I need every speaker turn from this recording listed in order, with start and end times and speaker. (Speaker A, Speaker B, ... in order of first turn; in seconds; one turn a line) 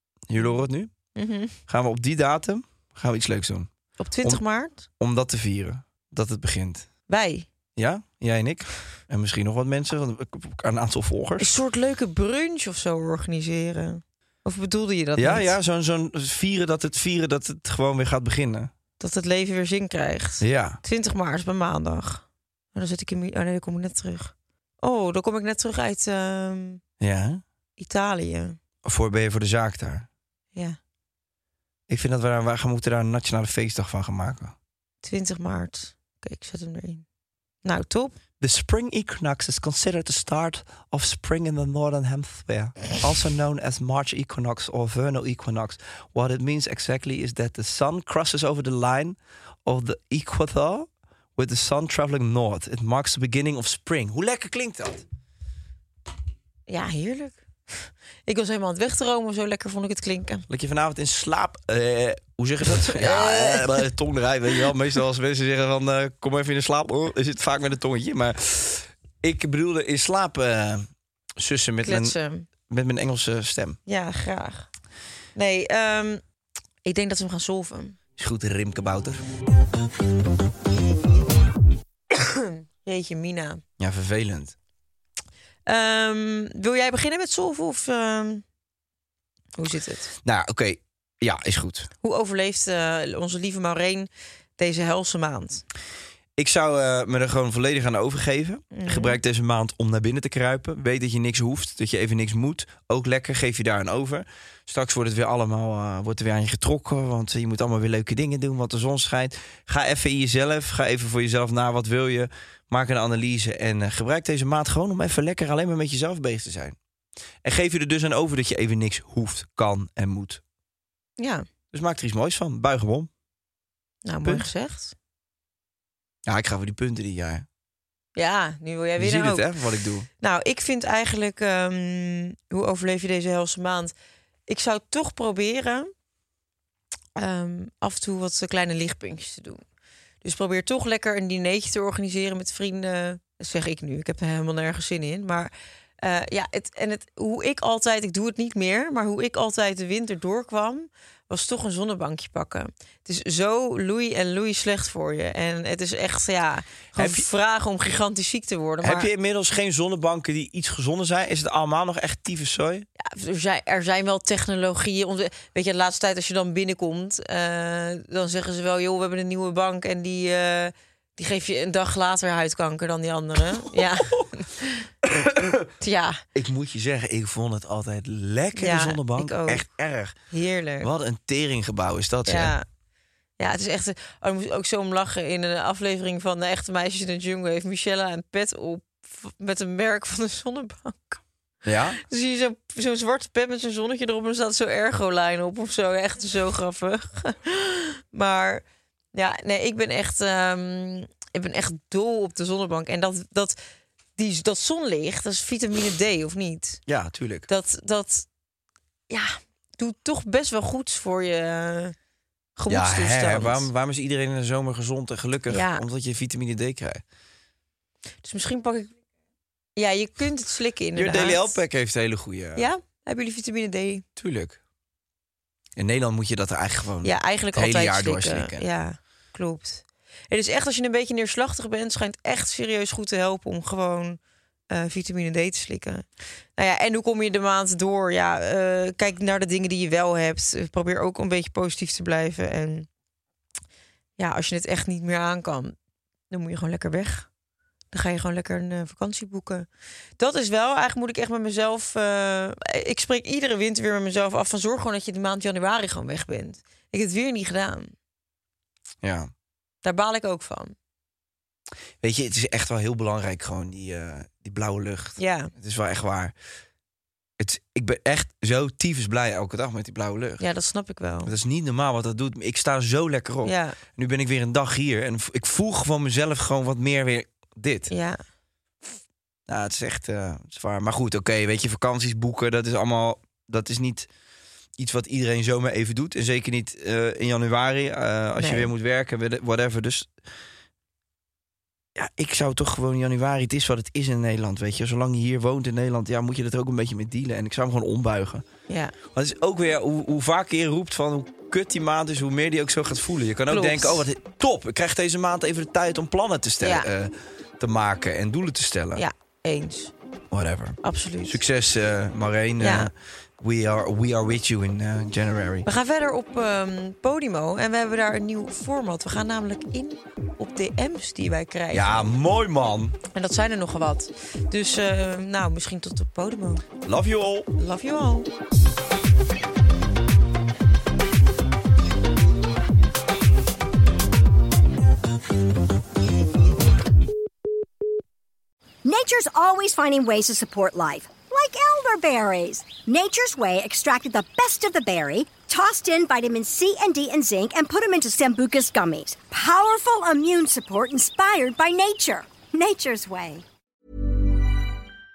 Speaker A: 0.3-0.9
Speaker B: 1.1-1.6
Speaker A: 1.7-3.7
Speaker B: 4.0-4.8
Speaker A: 5.0-6.9
Speaker B: 7.1-7.5
Speaker A: 7.8-11.5
Speaker B: 11.4-15.5
Speaker A: 15.2-18.7
Speaker B: 19.0-26.8
Speaker A: 20.4-20.8
Speaker A: 27.0-27.4
Speaker B: 27.8-28.6
Speaker A: 28.8-30.1
Speaker A: 31.9-34.5
Speaker B: 35.0-37.0
Speaker B: 37.6-38.1
Speaker A: 38.4-55.0
Speaker B: 56.7-60.4
Speaker A: 60.5-72.2
Speaker B: 62.8-63.9
Speaker B: 71.8-72.5
Speaker A: 72.7-73.8
Speaker B: 73.9-74.7
Speaker B: 75.3-76.2
Speaker B: 76.8-78.0
Speaker A: 78.2-79.2
Speaker B: 82.1-83.6
Speaker A: 83.8-84.5
Speaker B: 85.7-88.4
Speaker B: 89.5-90.1
Speaker A: 90.2-91.9
Speaker B: 92.0-95.6
Speaker A: 96.4-116.8
Speaker B: 98.7-99.2
Speaker A: 117.4-120.4
Speaker B: 121.2-121.5
Speaker A: 121.7-123.1
Speaker B: 124.0-124.9
Speaker A: 126.2-127.5
Speaker B: 128.2-129.5
Speaker A: 129.0-130.1
Speaker B: 130.2-133.9
Speaker B: 134.5-135.9
Speaker B: 137.1-139.6
Speaker B: 140.2-159.1
Speaker A: 156.9-157.3
Speaker A: 158.8-162.9
Speaker B: 163.0-174.9
Speaker A: 173.8-174.2
Speaker A: 175.0-175.7
Speaker B: 175.8-176.2
Speaker A: 176.3-180.2
Speaker B: 178.6-179.6
Speaker B: 180.3-180.9
Speaker A: 180.8-182.6
Speaker B: 182.3-182.6
Speaker B: 183.4-191.2
Speaker A: 191.6-192.0
Speaker B: 192.0-203.6
Speaker B: 204.2-206.8
Speaker A: 206.9-207.5
Speaker B: 207.5-208.2
Speaker B: 209.1-211.9
Speaker B: 212.6-213.7
Speaker A: 212.7-217.0
Speaker B: 215.5-215.8
Speaker B: 218.2-218.9
Speaker B: 219.8-221.6
Speaker A: 220.9-222.7
Speaker B: 222.6-224.0
Speaker A: 224.2-224.6
Speaker A: 225.8-228.7
Speaker B: 227.0-234.2
Speaker B: 234.7-242.9
Speaker B: 244.2-245.7
Speaker B: 246.3-247.3
Speaker B: 247.9-249.7
Speaker B: 250.2-257.9
Speaker A: 259.0-259.3
Speaker B: 259.8-260.7
Speaker A: 262.0-266.3
Speaker B: 265.2-265.5
Speaker A: 267.4-270.4
Speaker B: 270.4-271.3
Speaker A: 271.2-277.9
Speaker B: 273.4-273.8
Speaker B: 277.9-278.2
Speaker A: 279.5-284.1
Speaker A: 284.8-290.1
Speaker B: 288.4-288.7
Speaker A: 291.9-298.4
Speaker B: 298.7-298.9
Speaker A: 299.1-309.1
Speaker B: 303.5-304.0
Speaker B: 306.6-306.9
Speaker B: 308.9-309.9
Speaker A: 310.3-315.7
Speaker B: 310.8-311.4
Speaker B: 312.6-312.9
Speaker B: 315.6-322.0
Speaker A: 321.7-323.0
Speaker B: 323.1-326.6
Speaker A: 326.8-327.5
Speaker B: 327.6-328.3
Speaker C: 338.8-353.4